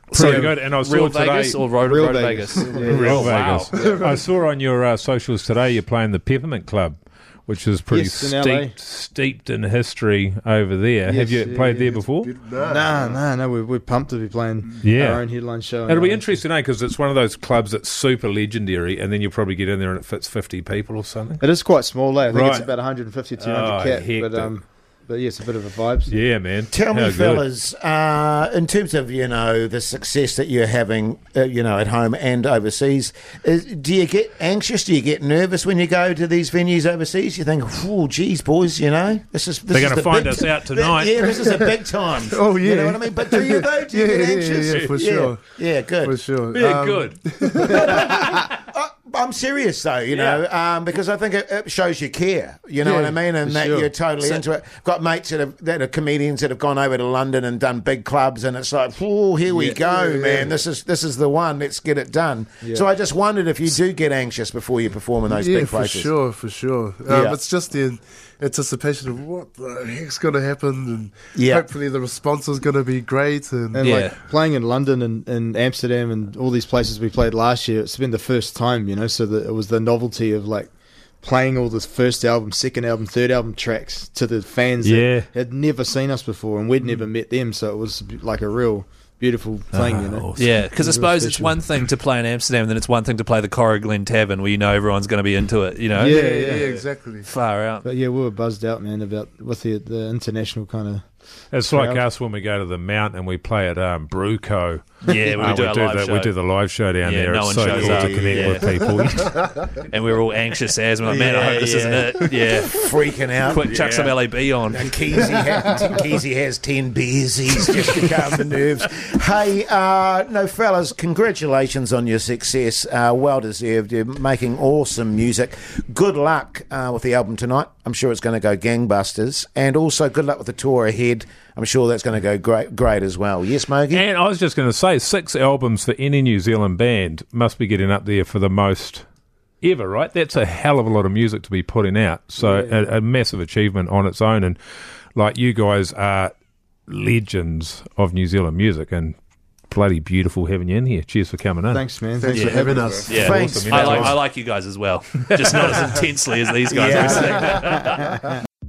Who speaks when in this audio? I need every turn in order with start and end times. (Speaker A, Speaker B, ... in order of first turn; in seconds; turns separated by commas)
Speaker A: 0.1-3.7, Speaker B: 0.1-1.6, Speaker C: 0.1-0.5, Speaker C: 1.8-3.2, Speaker D: 2.6-4.3, Speaker B: 2.9-12.3, Speaker C: 7.9-8.7, Speaker C: 11.0-12.0, Speaker D: 12.2-13.2, Speaker C: 12.6-16.3, Speaker B: 14.8-15.2, Speaker B: 15.9-21.4, Speaker C: 21.4-26.2, Speaker B: 22.3-22.7, Speaker B: 23.4-24.5, Speaker B: 26.1-27.5, Speaker E: 26.7-46.1, Speaker B: 39.7-41.2, Speaker D: 41.3-48.1, Speaker B: 46.5-47.2, Speaker E: 47.6-66.1, Speaker C: 52.9-54.4, Speaker C: 59.5-59.8, Speaker D: 59.8-60.6, Speaker C: 62.6-62.9, Speaker D: 65.3-73.9, Speaker E: 67.1-67.4, Speaker E: 71.3-71.7, Speaker C: 73.7-80.7, Speaker A: 73.8-74.2, Speaker C: 81.2-91.6, Speaker B: 84.8-85.3, Speaker A: 89.7-96.2, Speaker B: 89.8-90.3, Speaker C: 95.9-96.8, Speaker D: 96.0-97.3, Speaker A: 97.2-97.8, Speaker C: 97.8-101.1, Speaker B: 101.5-109.5, Speaker C: 101.6-102.0, Speaker A: 105.0-106.3, Speaker C: 105.1-105.4, Speaker A: 107.0-108.7, Speaker E: 107.7-108.6, Speaker A: 109.8-112.8, Speaker C: 111.3-112.1, Speaker E: 112.6-114.2, Speaker A: 113.4-115.0, Speaker E: 114.7-134.0, Speaker B: 133.9-139.0, Speaker B: 139.6-144.6, Speaker C: 142.4-142.8, Speaker B: 145.1-146.3, Speaker B: 146.9-149.2, Speaker B: 149.7-151.9, Speaker C: 151.7-153.3, Speaker D: 152.2-153.5, Speaker A: 152.3-158.0, Speaker E: 153.0-154.2, Speaker B: 153.4-154.2, Speaker E: 156.7-157.7